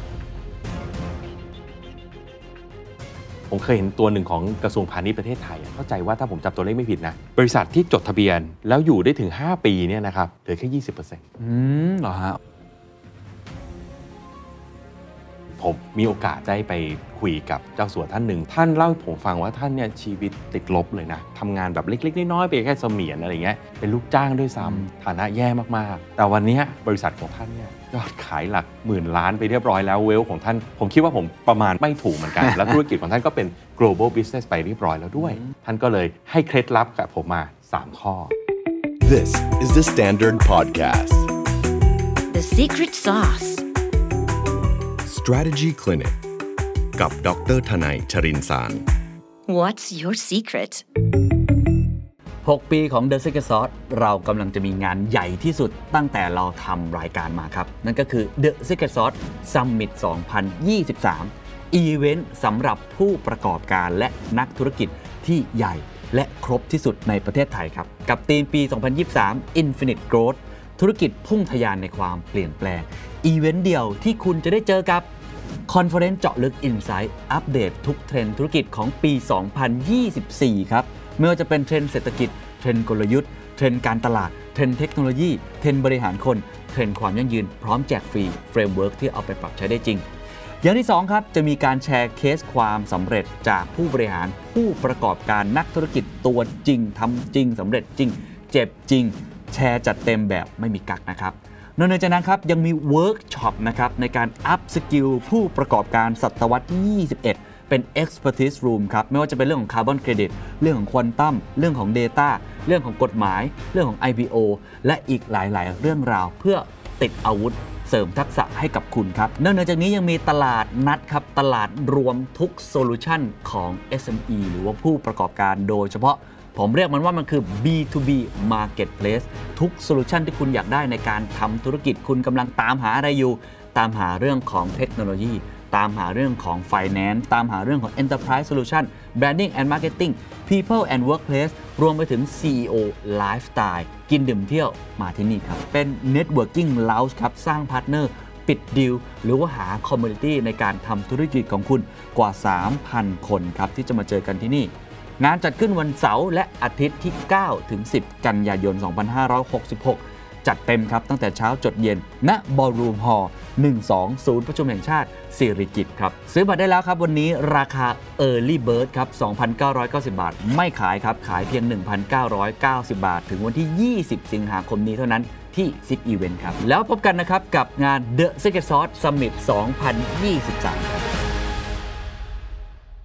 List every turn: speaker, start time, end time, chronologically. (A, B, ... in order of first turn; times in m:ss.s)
0:03.5-0:11.2 A
0:11.4-0:12.4 B
0:15.6-0:38.3 A
0:39.0-0:41.3 C
0:42.3-0:43.6 D
0:45.0-0:46.2 C
0:47.0-0:48.9 C
0:49.5-0:50.8 D
0:52.4-1:15.1 B
1:15.7-1:30.0 B
1:30.6-3:01.1 B